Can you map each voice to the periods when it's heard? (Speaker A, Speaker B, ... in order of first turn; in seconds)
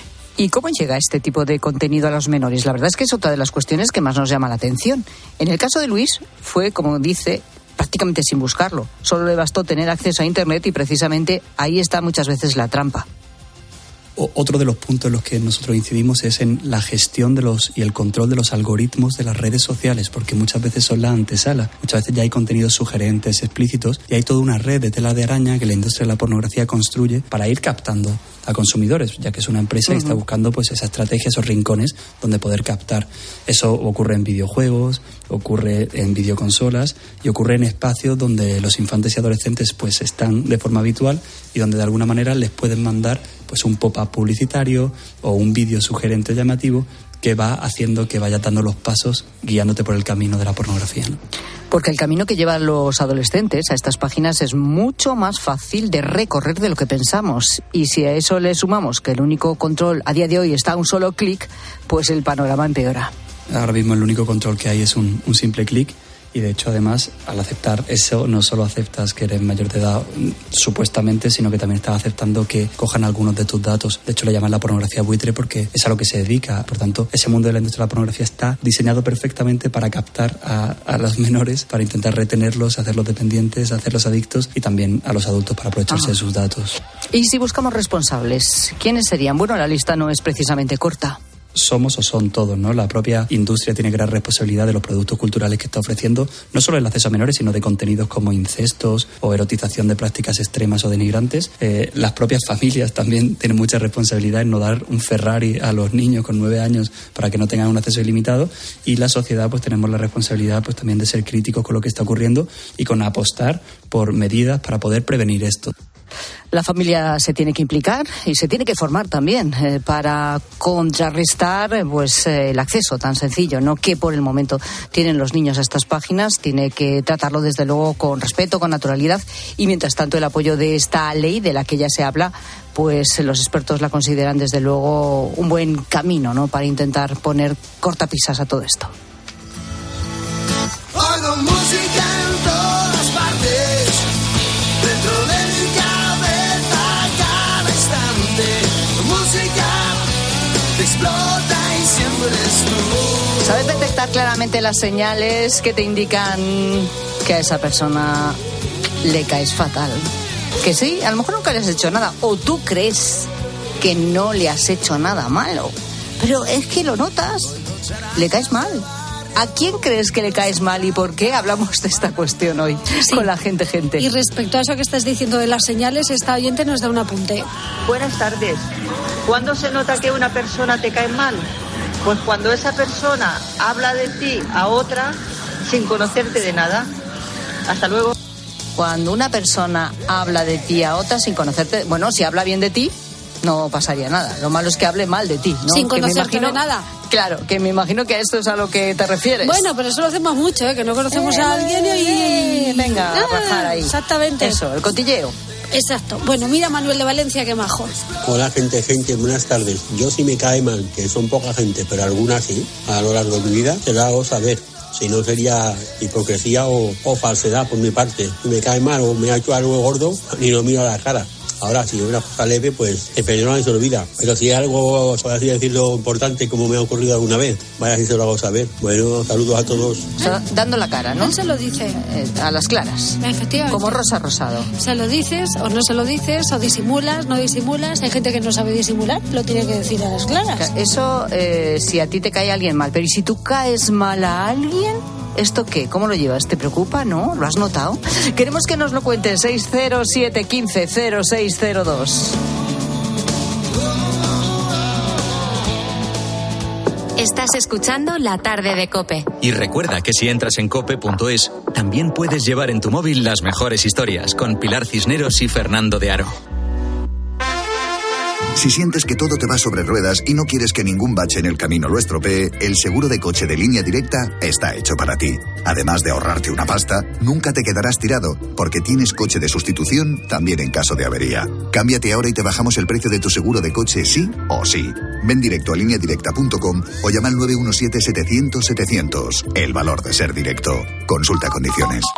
Speaker A: 0.4-13.1, 29.9-30.2, 51.7-63.1, 87.1-91.2, 116.5-138.9, 153.4-158.4, 159.0-160.1, 160.6-163.3, 163.8-167.5, 168.1-168.8, 169.3-174.0, 188.8-199.6, 201.1-205.3, 230.2-231.4, 231.9-234.7, 240.5-252.3
Speaker B: 14.2-51.2, 63.5-86.8, 91.5-115.7
Speaker C: 173.0-173.3, 174.0-177.4, 195.7-196.8, 199.4-204.6, 205.7-208.0, 231.2-232.0, 233.2-234.1, 234.8-240.7
Speaker D: 177.9-178.6, 179.3-181.4, 182.0-185.2, 185.7-186.9, 187.7-188.1
Speaker E: 208.2-230.1
Speaker F: 257.2-259.3
Speaker G: 259.4-266.4
Speaker H: 268.6-292.1